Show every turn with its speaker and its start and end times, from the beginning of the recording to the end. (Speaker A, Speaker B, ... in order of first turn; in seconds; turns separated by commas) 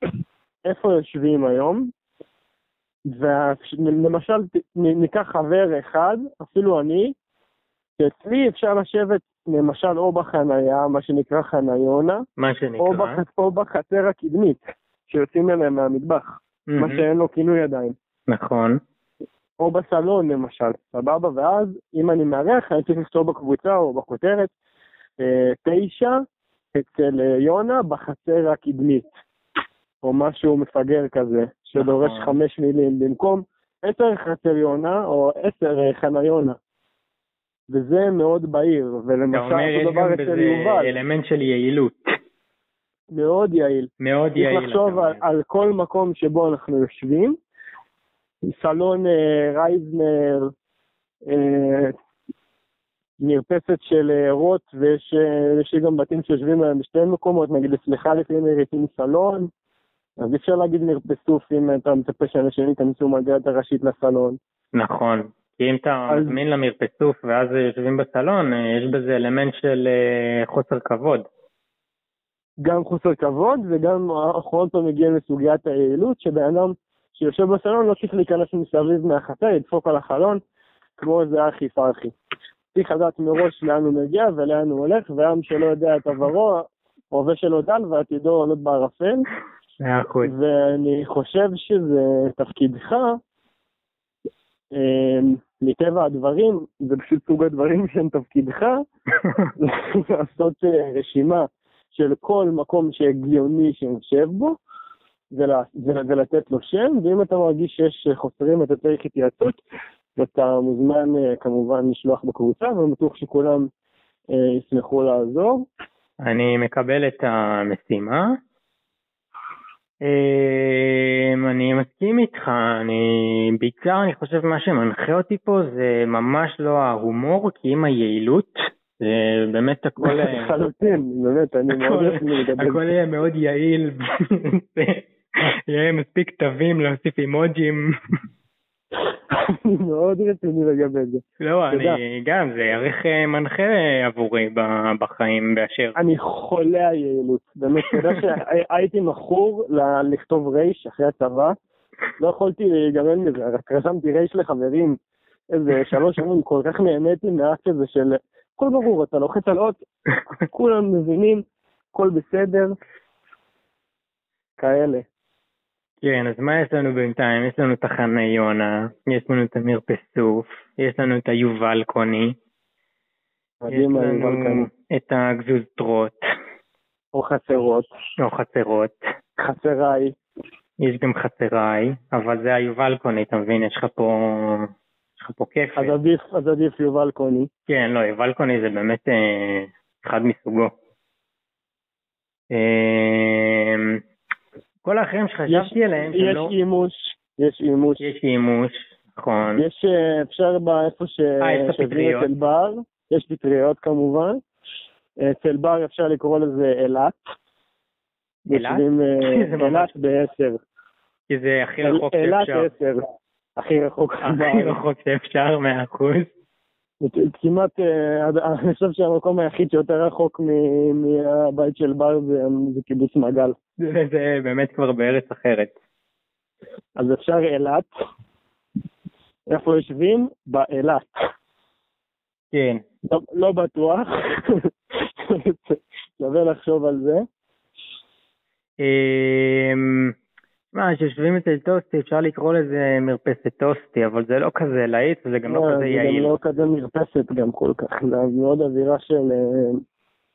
Speaker A: 0.6-1.9, Speaker A: 3.1-7.1, Speaker A: 8.0-12.2, Speaker B: 12.4-13.2, Speaker A: 12.8-17.9, Speaker B: 16.7-17.0, Speaker B: 18.3-18.8, Speaker A: 19.6-24.5, Speaker A: 25.2-26.2, Speaker A: 26.7-29.1, Speaker A: 30.0-36.6, Speaker B: 31.8-32.4, Speaker A: 37.7-40.9, Speaker B: 39.3-42.1, Speaker A: 43.1-47.4, Speaker B: 44.0-45.2, Speaker A: 48.5-50.5, Speaker A: 51.2-51.9, Speaker A: 53.2-59.5, Speaker A: 60.2-64.4, Speaker B: 64.7-71.2, Speaker A: 66.1-66.4, Speaker A: 72.6-80.4, Speaker A: 81.0-82.1, Speaker A: 82.7-89.2, Speaker B: 89.8-90.3, Speaker A: 90.2-93.2, Speaker A: 94.7-98.8, Speaker A: 99.6-104.6, Speaker A: 105.3-109.6, Speaker A: 110.2-113.7, Speaker A: 114.3-115.6, Speaker B: 116.2-118.2, Speaker B: 120.0-130.5, Speaker A: 130.0-132.8, Speaker B: 131.7-135.0, Speaker B: 135.7-137.9, Speaker A: 139.3-142.0, Speaker B: 141.4-146.0, Speaker A: 146.0-151.5, Speaker A: 152.2-155.0, Speaker A: 155.5-159.8, Speaker A: 160.4-162.8, Speaker A: 164.6-165.0, Speaker B: 166.0-172.3, Speaker A: 173.6-174.7, Speaker B: 173.7-176.2, Speaker A: 177.1-177.9, Speaker B: 178.2-178.9, Speaker A: 179.4-180.1, Speaker B: 180.8-185.9, Speaker A: 185.8-187.5, Speaker B: 187.7-190.7, Speaker B: 192.5-194.0, Speaker B: 194.8-196.5, Speaker A: 195.5-198.1, Speaker B: 198.0-199.6, Speaker A: 199.6-204.4, Speaker B: 201.4-202.3, Speaker A: 205.2-207.1, Speaker A: 208.5-210.6, Speaker B: 208.5-209.9, Speaker B: 211.3-212.7, Speaker A: 211.8-213.0, Speaker A: 213.6-214.8, Speaker B: 214.2-216.3, Speaker A: 217.0-223.6, Speaker B: 223.8-225.7, Speaker A: 227.0-227.9, Speaker A: 229.5-231.1, Speaker B: 232.5-232.8, Speaker A: 233.1-234.7, Speaker A: 235.2-237.2, Speaker B: 238.8-240.1, Speaker B: 240.7-246.3, Speaker A: 245.5-249.8